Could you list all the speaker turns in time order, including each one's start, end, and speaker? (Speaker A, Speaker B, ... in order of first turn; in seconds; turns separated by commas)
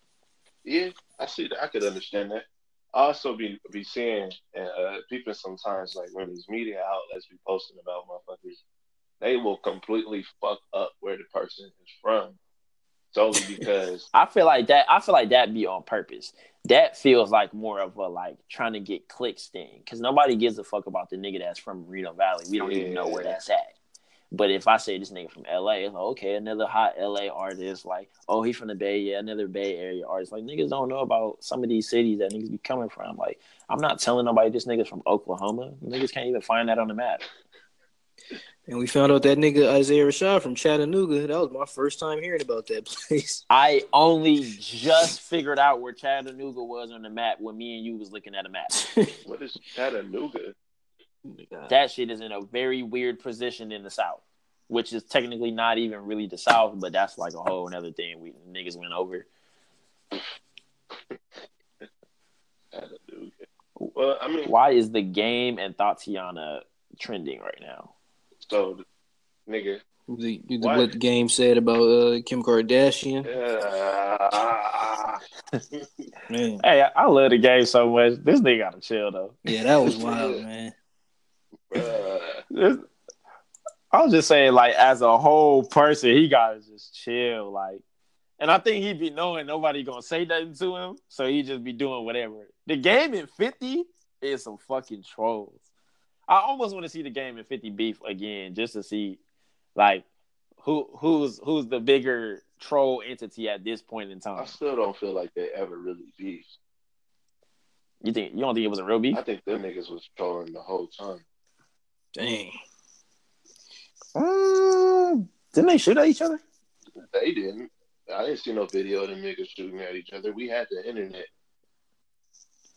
Speaker A: 0.6-8.6, Speaker A: 9.2-12.3, Speaker A: 13.1-14.1, Speaker B: 14.1-23.8, Speaker A: 22.5-23.4, Speaker B: 24.3-37.2, Speaker C: 38.7-43.4, Speaker B: 43.5-48.7, Speaker C: 48.8-49.1, Speaker A: 49.2-50.5, Speaker C: 51.2-51.7, Speaker B: 51.7-59.3, Speaker A: 62.7-64.5, Speaker B: 64.4-67.9, Speaker A: 68.4-68.8, Speaker A: 69.5-69.8, Speaker C: 70.1-73.3, Speaker A: 70.6-70.9, Speaker A: 73.2-75.2, Speaker C: 76.3-76.6, Speaker B: 76.6-79.4, Speaker C: 79.4-80.7, Speaker A: 79.8-80.4, Speaker A: 81.7-82.4, Speaker B: 82.5-82.8, Speaker B: 83.9-87.8, Speaker B: 88.4-95.6, Speaker B: 96.3-99.2, Speaker B: 99.8-100.0, Speaker B: 100.6-104.5, Speaker A: 104.3-106.6, Speaker B: 108.0-109.2, Speaker A: 109.1-111.2, Speaker C: 112.2-112.5, Speaker B: 114.1-116.4, Speaker A: 117.0-121.3